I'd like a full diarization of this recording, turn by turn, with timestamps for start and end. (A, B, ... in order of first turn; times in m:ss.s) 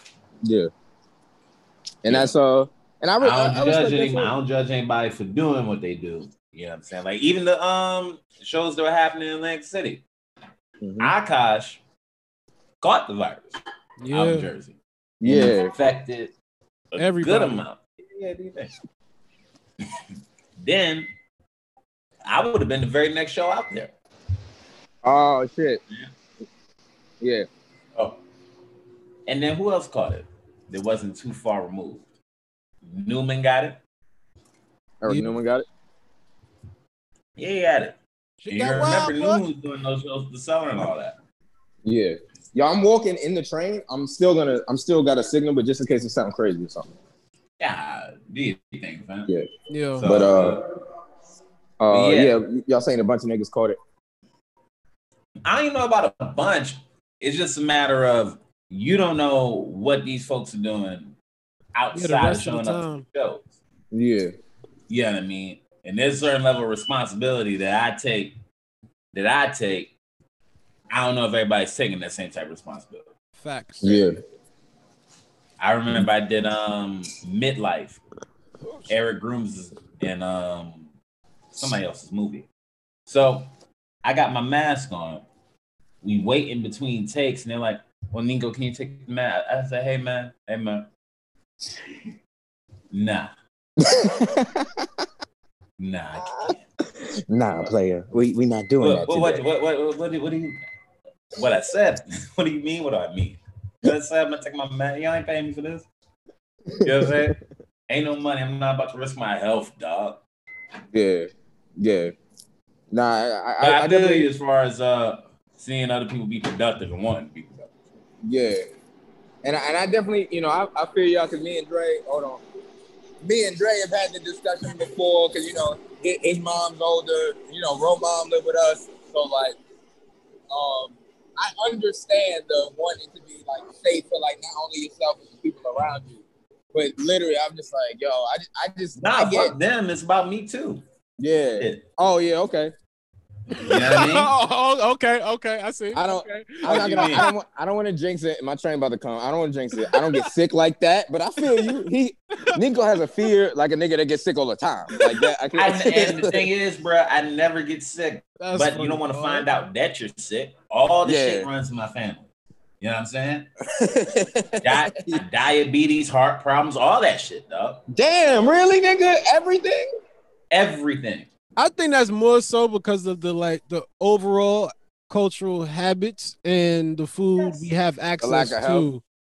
0:00.4-0:00.7 A
0:02.0-0:04.3 A
0:02.1-0:02.3 B
0:03.2-0:10.0 B
0:10.8-0:11.1 A
0:11.0-0:11.8 B
0:12.8-0:13.6 B
0:14.0-0:14.5 C
0:14.1-0:16.3 B
0:15.2-0:15.7 A
0:16.9-0:18.7 B
0:17.0-0:17.6 C
0:20.6-0:21.1 B
0:22.2-0:23.9 B
0:25.0-0:25.8 A
0:27.2-0:27.5 A
0:29.3-0:32.0 B
0:32.8-0:33.8 B
0:35.0-0:35.6 A
0:35.1-0:35.3 C
0:37.4-0:38.0 B
0:38.4-0:39.4 C
0:38.5-0:41.2 B
0:41.8-0:46.9 A
0:47.6-0:49.3 B
0:49.7-0:50.1 C
0:50.0-0:50.6 B
0:50.0-0:50.6 A
0:51.8-0:53.8 A
0:51.9-0:52.3 B
0:55.4-1:01.1 B
1:01.7-1:03.5 B
1:01.9-1:03.0 C
1:03.9-1:04.3 A
1:04.9-1:08.4 B
1:09.1-1:09.9 B
1:10.9-1:13.1 B
1:13.4-1:14.1 C
1:13.8-1:14.2 A
1:15.6-1:18.0 B
1:18.9-1:20.9 B
1:21.5-1:22.5 B
1:23.1-1:23.5 B
1:24.0-1:25.2 B
1:26.0-1:30.9 B
1:32.9-1:33.3 B
1:33.8-1:34.9 A
1:35.8-1:36.6 B
1:36.4-1:39.4 A
1:38.8-1:40.6 B
1:41.3-1:45.9 B
1:46.7-1:47.2 A
1:46.8-1:47.4 B
1:47.9-1:50.2 B
1:50.9-1:52.1 A
1:52.9-1:54.3 A
1:53.6-1:57.7 B
1:58.2-1:58.6 A
1:59.4-2:02.4 A
2:03.2-2:09.6 A
2:10.5-2:19.5 A
2:19.0-2:20.8 B
2:21.2-2:22.7 A
2:21.6-2:21.8 B
2:23.5-2:27.3 C
2:23.6-2:24.3 B
2:25.9-2:36.5 A
2:26.6-2:27.3 B
2:29.8-2:30.3 C
2:31.4-2:31.8 C
2:35.5-2:42.3 B
2:38.4-2:39.6 C
2:41.0-2:41.5 A
2:42.8-2:43.5 B
2:43.7-2:45.2 A
2:44.6-2:47.8 B
2:47.9-2:49.9 A
2:50.5-2:51.3 B
2:51.6-2:59.0 C
2:57.4-2:57.6 B
2:58.2-2:58.9 A